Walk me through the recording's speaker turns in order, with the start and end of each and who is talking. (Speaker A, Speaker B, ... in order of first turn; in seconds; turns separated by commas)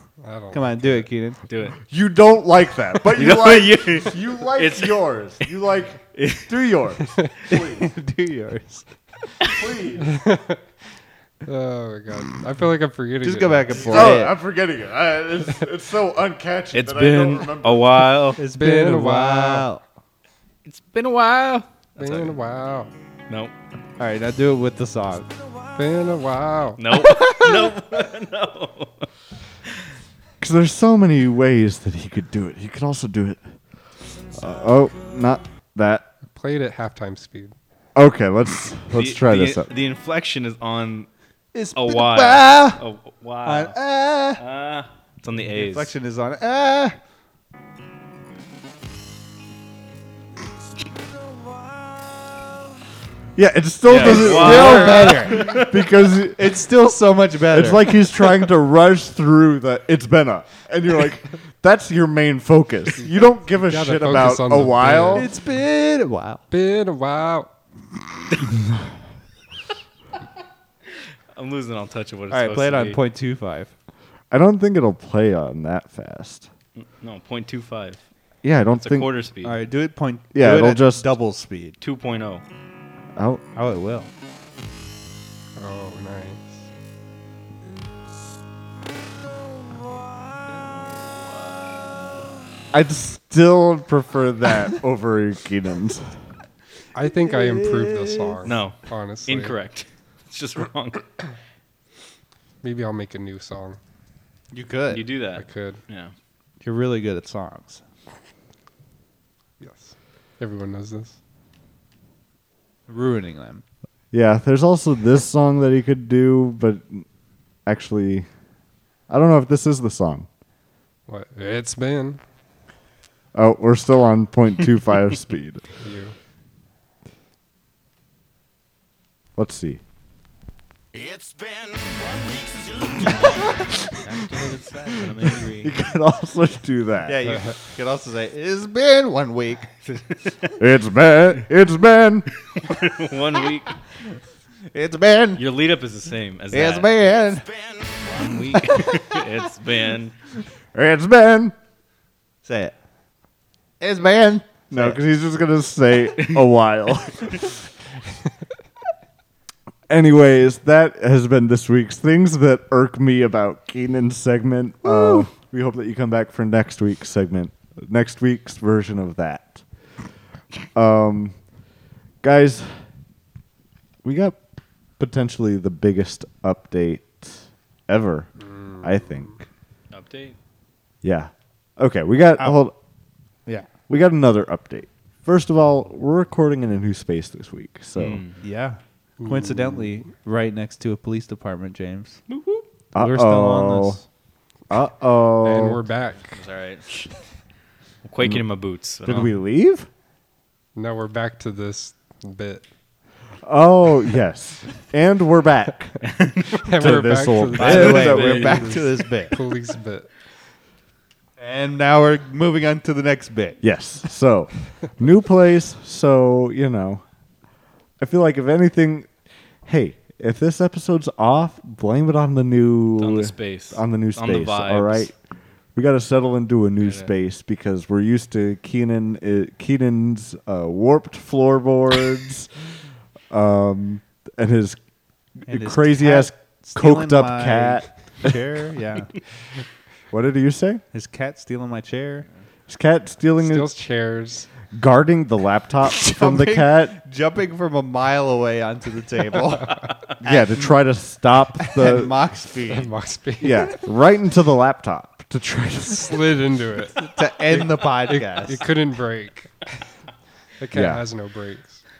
Speaker A: 0.2-0.7, Speaker B: 0.5-1.4, Speaker C: 1.4-1.8, Speaker D: 1.9-7.9, Speaker C: 3.1-5.5, Speaker C: 6.1-6.5, Speaker B: 7.5-8.9, Speaker D: 9.4-10.1, Speaker A: 10.1-10.6, Speaker A: 11.4-14.1, Speaker B: 13.2-14.3, Speaker D: 13.8-18.1, Speaker C: 16.7-18.4, Speaker B: 18.4-19.8, Speaker A: 18.5-19.7, Speaker C: 20.6-22.3, Speaker A: 22.0-22.9, Speaker B: 24.0-25.3, Speaker A: 25.8-26.8, Speaker C: 26.8-29.1, Speaker B: 26.9-27.7, Speaker D: 30.4-33.4, Speaker D: 34.3-36.1, Speaker A: 36.3-37.5, Speaker D: 37.9-39.7, Speaker C: 38.9-41.1, Speaker B: 41.5-42.8, Speaker C: 41.7-43.8, Speaker B: 43.4-44.4, Speaker C: 44.4-45.9, Speaker B: 45.5-47.0, Speaker D: 53.4-56.5, Speaker C: 53.9-55.9, Speaker B: 53.9-55.7, Speaker B: 56.4-58.0, Speaker D: 57.5-65.3, Speaker A: 63.0-65.3, Speaker B: 65.1-66.4, Speaker A: 66.5-67.5, Speaker C: 71.3-73.0, Speaker B: 72.3-73.7, Speaker D: 74.3-76.5, Speaker C: 76.8-78.0, Speaker D: 78.4-79.1, Speaker C: 78.8-79.6, Speaker B: 79.4-81.8, Speaker D: 80.3-81.0, Speaker C: 81.8-82.4, Speaker D: 83.2-83.4, Speaker B: 83.5-84.1, Speaker A: 85.6-86.6, Speaker C: 90.5-91.7, Speaker D: 92.7-96.1, Speaker A: 96.9-99.5, Speaker B: 97.3-98.4, Speaker C: 98.4-101.1, Speaker A: 102.6-103.8, Speaker B: 104.5-105.0, Speaker C: 104.9-106.1, Speaker A: 105.3-105.8, Speaker B: 106.6-107.8, Speaker A: 109.6-111.2, Speaker B: 112.9-113.6, Speaker D: 114.1-117.0, Speaker D: 117.7-118.3, Speaker D: 119.1-120.3, Speaker A: 121.1-122.2, Speaker D: 123.3-125.6, Speaker A: 125.8-126.1, Speaker D: 129.3-129.8, Speaker C: 132.9-135.7, Speaker D: 135.4-137.4, Speaker B: 137.1-139.7, Speaker A: 137.3-137.5, Speaker C: 139.8-140.6, Speaker D: 140.6-142.3, Speaker C: 142.5-143.8, Speaker B: 144.7-145.4, Speaker C: 145.4-146.9, Speaker B: 146.5-147.5, Speaker C: 148.1-150.1, Speaker B: 148.5-149.2, Speaker D: 150.7-151.5, Speaker B: 152.4-152.7, Speaker B: 153.8-155.0, Speaker D: 154.7-157.5, Speaker D: 159.9-169.6, Speaker B: 164.8-165.3, Speaker D: 170.7-171.3, Speaker D: 172.2-172.8, Speaker D: 174.0-174.4, Speaker D: 175.0-178.3, Speaker A: 178.5-179.0, Speaker D: 178.8-179.4, Speaker C: 179.9-180.3, Speaker D: 181.0-182.7, Speaker D: 183.9-188.2, Speaker C: 187.9-188.4, Speaker B: 188.4-192.2, Speaker A: 189.2-189.7, Speaker C: 192.3-192.7, Speaker D: 192.9-194.0, Speaker B: 193.0-194.0, Speaker D: 194.7-195.8, Speaker A: 195.4-196.4, Speaker C: 196.3-197.1, Speaker C: 198.0-199.3, Speaker D: 199.0-199.9, Speaker A: 200.7-202.6, Speaker D: 203.4-206.0, Speaker C: 206.0-206.7, Speaker A: 206.6-210.1, Speaker D: 206.7-208.8, Speaker B: 207.5-209.3, Speaker C: 207.6-209.1, Speaker B: 211.4-213.6, Speaker D: 213.6-217.0, Speaker D: 218.0-219.1, Speaker D: 219.7-225.1, Speaker C: 223.0-225.1, Speaker D: 225.7-232.5, Speaker C: 226.8-227.1, Speaker D: 233.3-234.8, Speaker D: 235.4-238.3, Speaker B: 235.5-239.2, Speaker D: 240.1-240.8, Speaker B: 240.9-242.2, Speaker D: 242.7-243.7, Speaker A: 243.4-244.5, Speaker D: 244.7-247.0, Speaker B: 245.8-250.8, Speaker D: 250.2-252.1, Speaker B: 251.6-252.9, Speaker A: 252.7-253.8, Speaker D: 253.4-256.3, Speaker A: 255.9-257.5, Speaker B: 257.0-258.6, Speaker A: 258.1-259.6, Speaker A: 260.6-261.8, Speaker D: 260.7-261.0